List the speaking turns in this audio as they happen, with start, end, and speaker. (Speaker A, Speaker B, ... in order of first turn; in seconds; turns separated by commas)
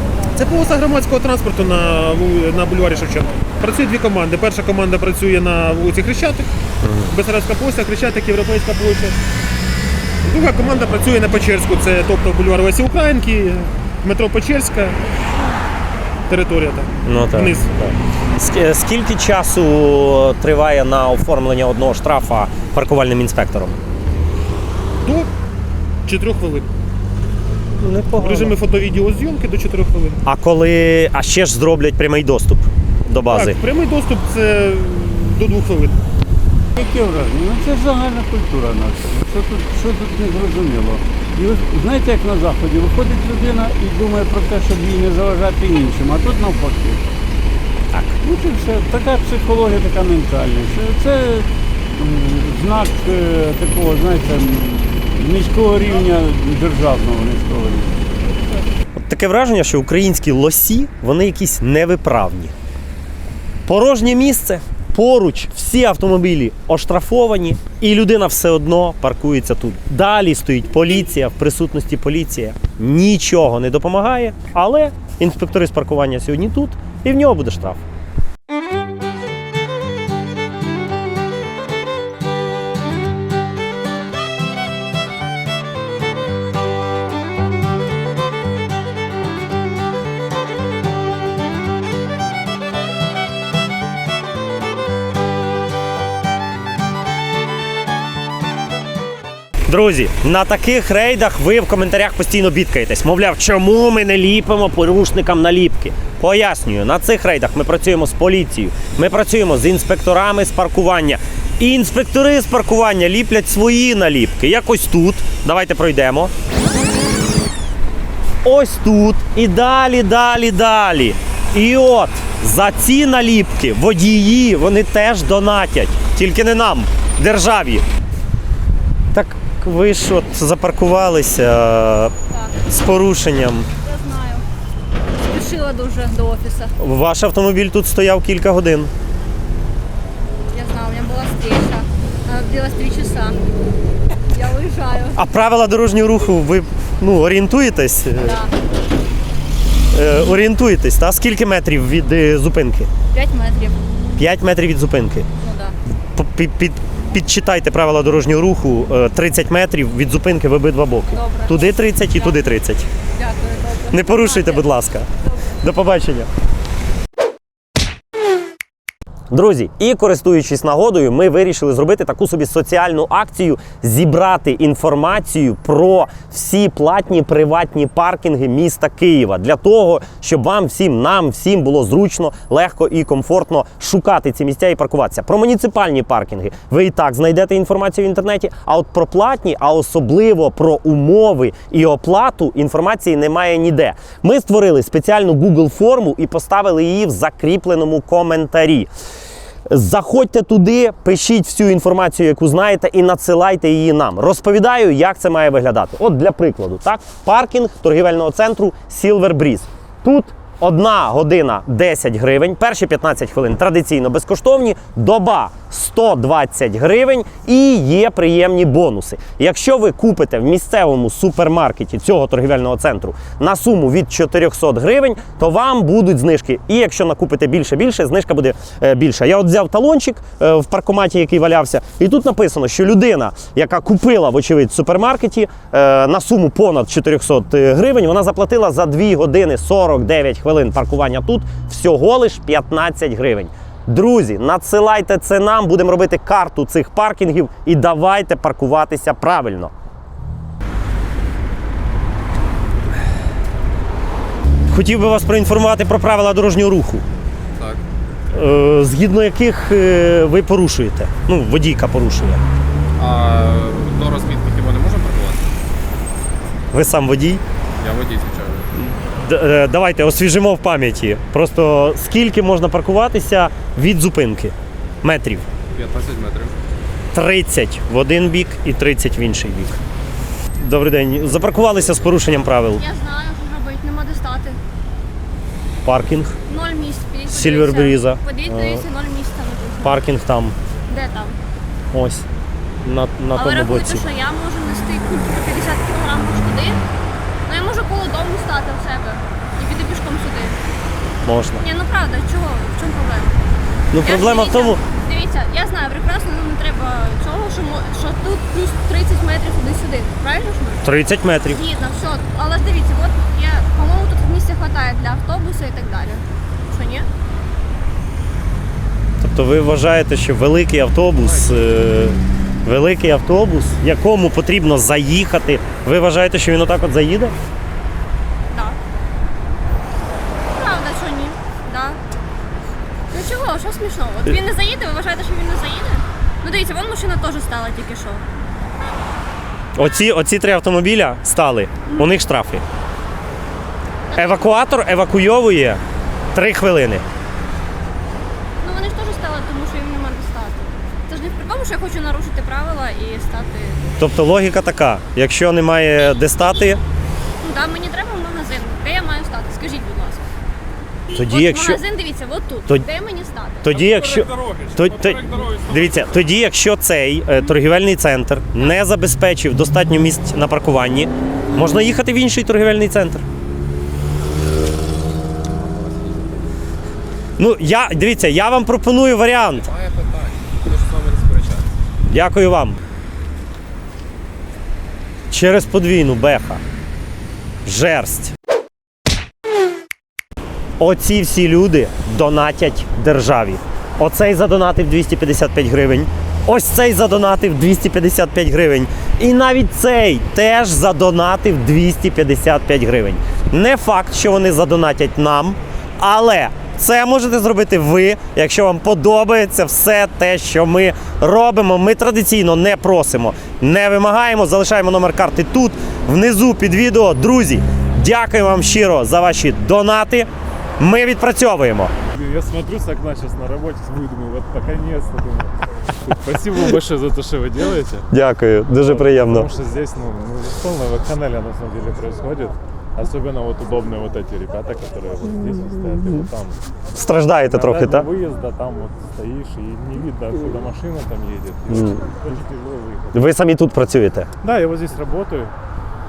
Speaker A: 0.3-6.5, Speaker B: 6.8-7.1, Speaker A: 7.1-9.2, Speaker A: 10.2-15.0, Speaker A: 16.3-17.7, Speaker B: 17.1-23.8, Speaker A: 25.0-25.3, Speaker A: 26.1-26.7, Speaker B: 27.7-28.6, Speaker A: 28.1-30.2, Speaker B: 30.2-33.5, Speaker A: 33.2-36.0, Speaker C: 36.8-47.0, Speaker C: 48.2-57.9, Speaker B: 58.9-62.5, Speaker B: 63.6-77.8, Speaker B: 99.7-116.3, Speaker B: 118.4-127.8, Speaker B: 129.1-132.1, Speaker B: 132.6-133.7, Speaker D: 133.9-134.4, Speaker D: 135.3-136.6, Speaker B: 136.8-138.9, Speaker D: 140.5-141.8, Speaker D: 142.3-143.2, Speaker D: 144.4-145.2, Speaker B: 145.1-148.4, Speaker B: 149.9-152.9, Speaker D: 153.2-153.7, Speaker B: 154.2-155.3, Speaker D: 155.4-155.7, Speaker B: 156.1-162.8, Speaker D: 161.2-161.6, Speaker D: 163.2-164.6, Speaker B: 163.9-166.3, Speaker B: 169.3-198.9, Speaker B: 199.7-249.7, Speaker B: 254.7-257.0, Speaker B: 258.3-262.4, Speaker E: 263.0-265.4, Speaker B: 266.7-267.4, Speaker E: 267.8-268.6, Speaker B: 268.8-275.4, Speaker E: 275.7-276.5, Speaker B: 277.1-279.8, Speaker B: 280.6-282.8, Speaker D: 282.8-284.6, Speaker B: 285.8-286.3, Speaker D: 286.5-290.0, Speaker B: 287.3-288.9, Speaker B: 289.8-290.5, Speaker D: 290.9-291.4, Speaker B: 291.9-292.2, Speaker B: 292.8-294.1, Speaker D: 293.3-296.8, Speaker D: 297.4-300.6, Speaker B: 301.2-301.6, Speaker D: 301.6-303.4, Speaker B: 303.9-304.8, Speaker D: 304.0-310.9, Speaker B: 310.8-311.6, Speaker D: 311.5-317.1, Speaker B: 319.2-327.3, Speaker D: 328.5-328.8, Speaker D: 330.5-332.0, Speaker D: 333.1-338.2, Speaker B: 339.7-342.6, Speaker D: 344.1-344.5, Speaker B: 344.1-345.8, Speaker B: 346.3-347.0, Speaker D: 348.6-353.8, Speaker B: 354.0-356.8, Speaker D: 356.0-356.7, Speaker D: 357.4-360.2, Speaker B: 361.1-361.8, Speaker D: 361.1-363.7, Speaker B: 363.6-373.2, Speaker E: 375.6-376.4, Speaker B: 377.4-379.7, Speaker E: 379.5-381.7, Speaker B: 382.1-382.8, Speaker B: 385.3-386.6, Speaker B: 387.6-388.3, Speaker B: 390.8-420.3, Speaker B: 420.8-421.9, Speaker F: 422.1-428.1, Speaker B: 428.1-429.5, Speaker F: 428.7-436.6, Speaker B: 436.9-438.1, Speaker F: 437.4-443.1, Speaker B: 441.7-442.0, Speaker B: 443.1-444.3, Speaker F: 444.4-445.5